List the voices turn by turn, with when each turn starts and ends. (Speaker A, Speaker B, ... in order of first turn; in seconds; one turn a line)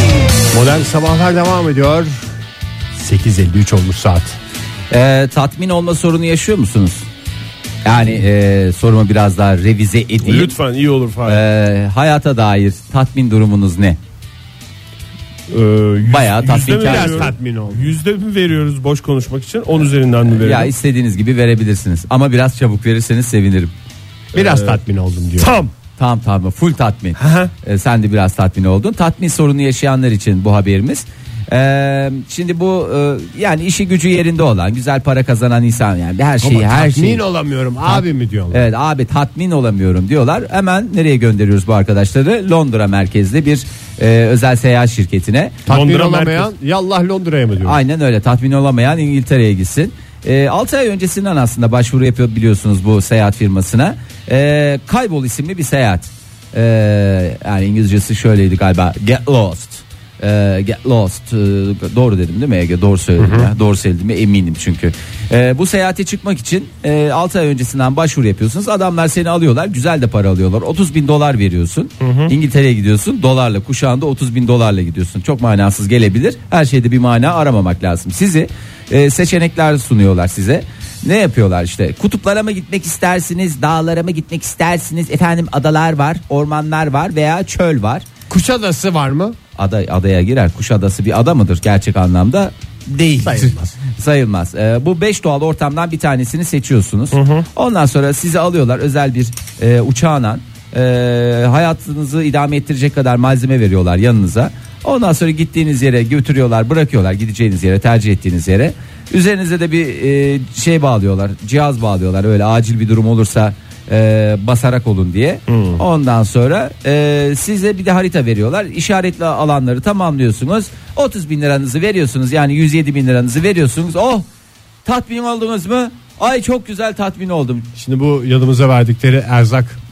Speaker A: 0.5-2.3
Speaker A: 2.9-4.4
Speaker B: 4.9-7.1
Speaker B: 7.8-10.5
Speaker C: 10.2-11.4
Speaker B: 11.2-14.0
Speaker C: 15.5-20.7
Speaker B: 16.0-17.3
Speaker A: 16.8-17.9
Speaker B: 20.3-23.7
Speaker A: 24.3-25.6
Speaker C: 24.3-24.8
Speaker C: 25.4-25.7
Speaker B: 26.0-37.2
Speaker C: 27.2-27.5
Speaker A: 36.4-38.7
Speaker B: 37.8-45.5
Speaker A: 45.6-47.8
Speaker C: 45.7-46.5
Speaker B: 47.6-88.0
Speaker A: 63.2-63.5
Speaker C: 72.0-72.3
Speaker A: 88.3-89.3
Speaker B: 89.5-124.2
Speaker A: 93.2-93.8
Speaker C: 97.1-97.4
Speaker C: 115.5-115.8
Speaker B: 124.8-127.7
Speaker A: 127.8-129.8